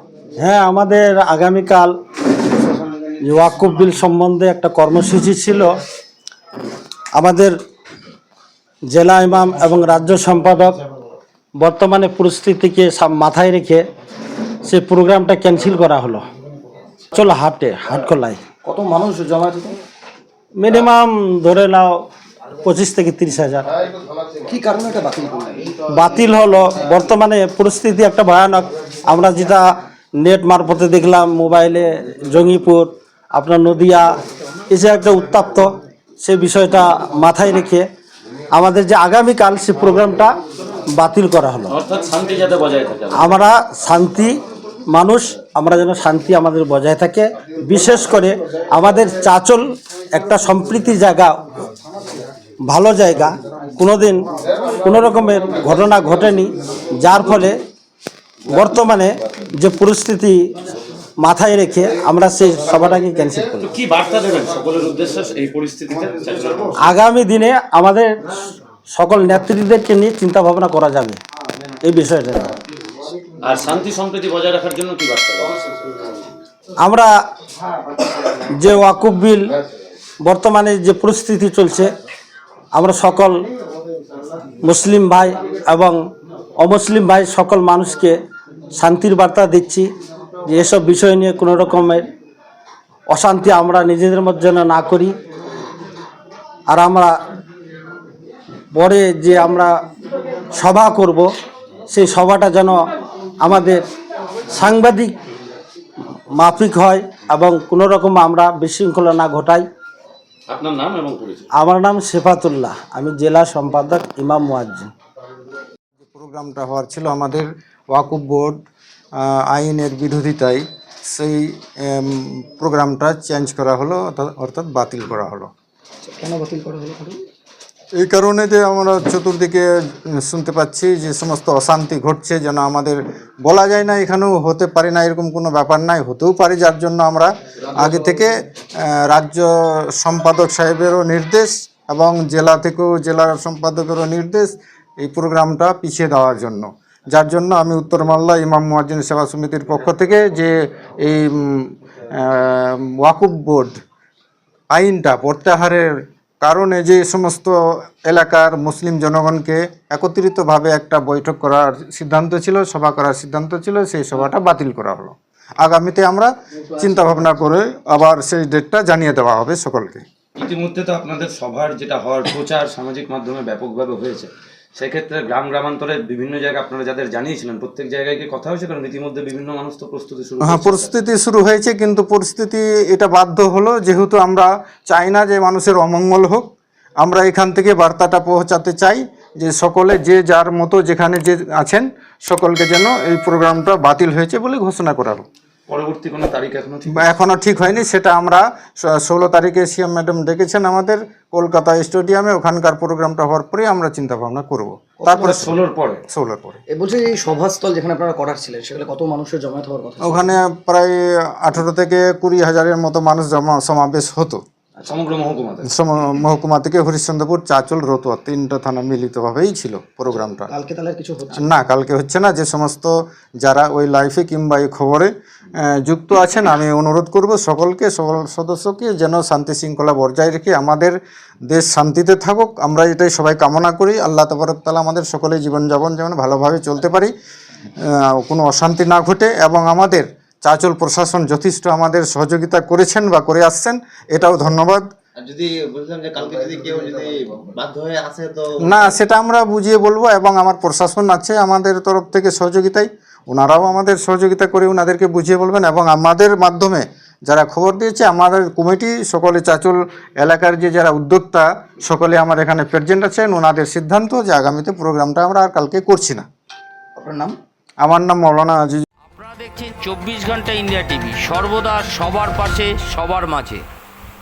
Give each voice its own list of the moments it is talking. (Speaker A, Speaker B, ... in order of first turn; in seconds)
Speaker A: 0.4-1.9, 3.2-5.8, 7.2-7.5, 8.9-10.8, 11.6-13.9, 14.6-16.3, 17.1-18.4, 20.6-22.0, 22.6-23.7, 25.9-34.1, 34.7-35.7, 36.2-37.9, 38.5-40.4, 40.9-41.8, 43.1-44.4, 44.9-51.4, 52.7-54.2, 54.8-57.6, 58.5-60.4, 61.2-63.7, 66.8-68.4, 68.9-71.2, 71.8-72.5, 76.8-77.1, 78.2-79.5, 80.2-81.9, 82.7-83.4, 84.6-86.0, 86.6-88.2, 88.7-89.9, 90.5-92.1, 93.1-95.2, 96.7-97.1, 98.7-99.7, 100.5-101.3, 101.9-102.8, 103.4-103.8, 104.5-105.2, 106.3-109.7, 111.6-114.9
Speaker B: 18.6-19.8, 24.4-25.8, 126.0-127.2, 206.7-210.3, 220.5-221.5, 267.0-267.4
Speaker C: 41.7-43.4, 63.7-66.8, 73.4-75.6, 110.5-111.5, 170.4-180.9, 195.7-197.2, 205.1-206.0, 214.8-215.7
Speaker D: 116.0-118.6, 119.2-125.5, 128.0-153.8, 154.7-170.0, 180.4-186.5, 187.0-195.2, 196.9-205.6, 206.1-206.6, 210.0-214.4, 215.7-220.5, 221.3-225.1, 225.6-231.0, 231.5-237.1, 237.8-244.9, 248.6-266.2, 267.8-268.8
Speaker E: 245.2-249.0
Speaker F: 269.1-273.6